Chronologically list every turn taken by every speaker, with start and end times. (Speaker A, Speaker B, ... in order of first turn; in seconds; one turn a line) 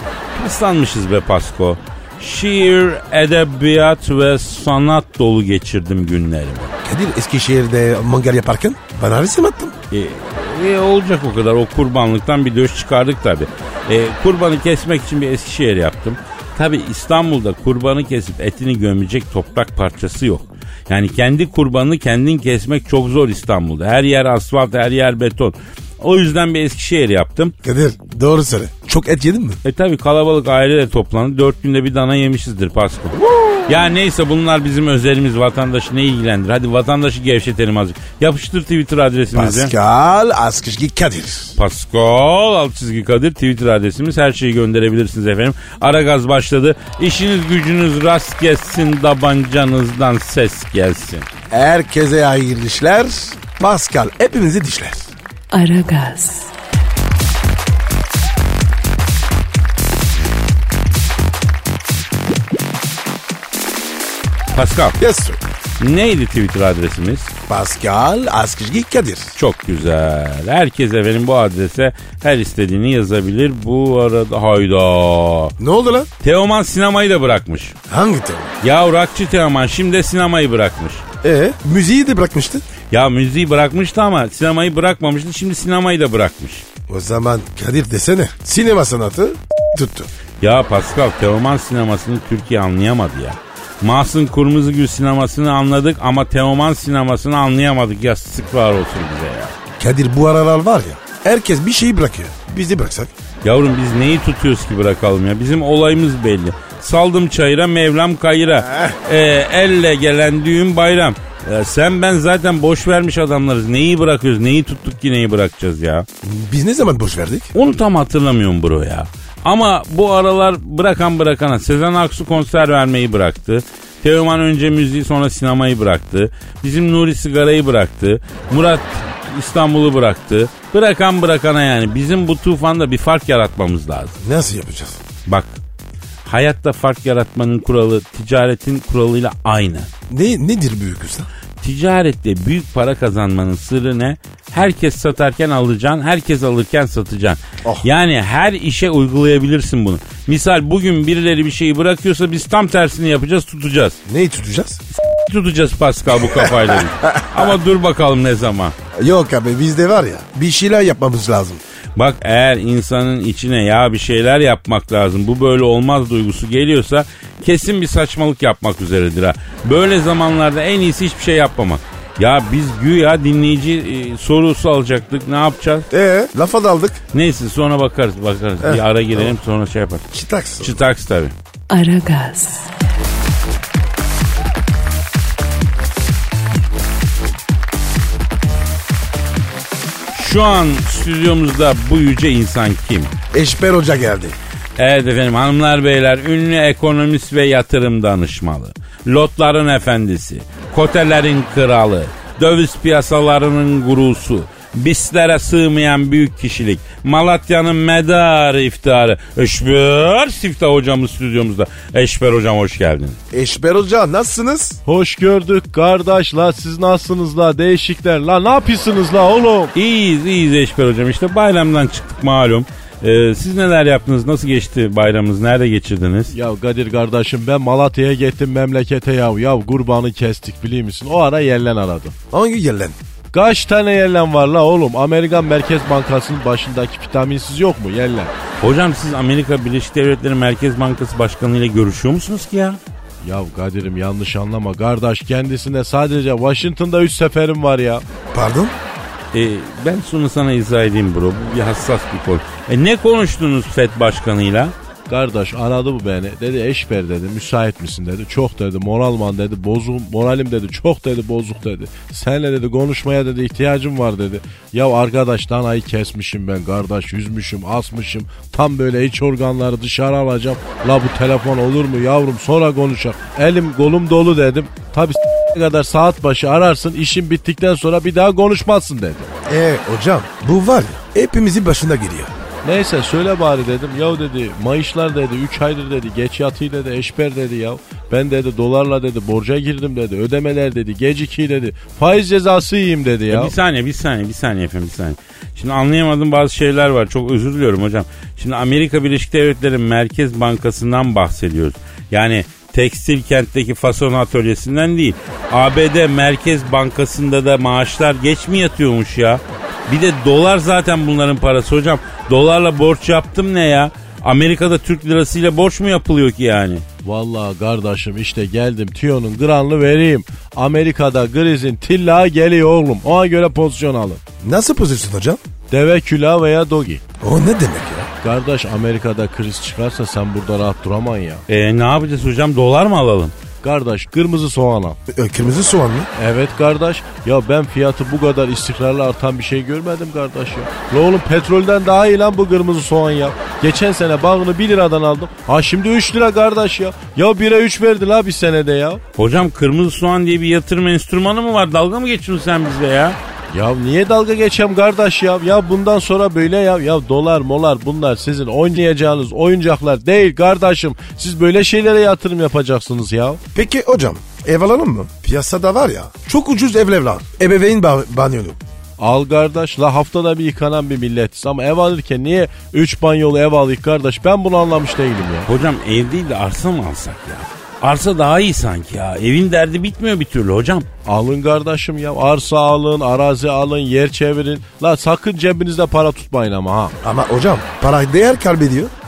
Speaker A: 0.3-6.7
Speaker B: 6.8-9.8
Speaker A: 9.9-27.5
Speaker B: 27.6-29.6
Speaker A: 29.6-39.7
Speaker B: 33.2-33.7
Speaker B: 39.3-41.5
Speaker A: 41.5-51.2
Speaker B: 51.5-55.1
Speaker C: 55.5-56.5
Speaker A: 64.5-65.0
Speaker B: 65.0-65.4
Speaker A: 65.8-67.3
Speaker B: 67.5-69.3
Speaker A: 69.3-75.5
Speaker B: 75.6-76.1
Speaker A: 76.2-77.8
Speaker B: 77.9-78.5
Speaker A: 78.6-81.0
Speaker B: 81.2-82.6
Speaker A: 82.9-86.6
Speaker B: 86.9-90.1
Speaker A: 90.4-99.5
Speaker B: 99.8-103.1
Speaker A: 103.4-116.0
Speaker B: 108.7-108.9
Speaker B: 116.2-117.5
Speaker A: 117.5-134.1
Speaker B: 134.2-135.0
Speaker A: 135.3-135.6
Speaker A: 136.2-139.9
Speaker B: 140.1-141.3
Speaker A: 141.6-154.0
Speaker B: 154.1-154.8
Speaker A: 155.0-158.7
Speaker B: 156.3-157.2
Speaker B: 158.9-161.6
Speaker A: 161.9-175.9
Speaker B: 175.9-177.0
Speaker A: 177.1-181.3
Speaker B: 178.6-179.2
Speaker B: 180.1-180.8
Speaker C: 181.7-182.6
Speaker A: 190.1-193.1
Speaker B: 193.3-194.3
Speaker A: 194.8-213.2
Speaker B: 213.3-214.8
Speaker D: 214.8-219.7
Speaker A: 219.7-226.3
Speaker D: 226.3-232.1
Speaker B: 232.3-232.9
Speaker D: 233.3-238.3
Speaker A: 238.6-242.8
Speaker D: 243.2-248.0
Speaker B: 248.3-248.7
Speaker A: 249.3-254.7
Speaker D: 255.1-279.3
Speaker B: 279.5-282.3
Speaker D: 282.6-293.5
Speaker A: 293.3-316.8
Speaker D: 317.0-324.2
Speaker B: 324.4-325.4
Speaker D: 325.7-327.0
Speaker B: 327.2-328.1
Speaker D: 328.2-331.4
Speaker A: 331.5-333.3
Speaker D: 333.6-335.0
Speaker B: 335.1-336.1
Speaker D: 336.1-349.0
Speaker A: 349.2-353.2
Speaker D: 353.5-363.4
Speaker B: 363.5-368.6
Speaker D: 369.0-375.5
Speaker A: 375.4-380.9
Speaker D: 381.1-386.9
Speaker B: 387.0-388.9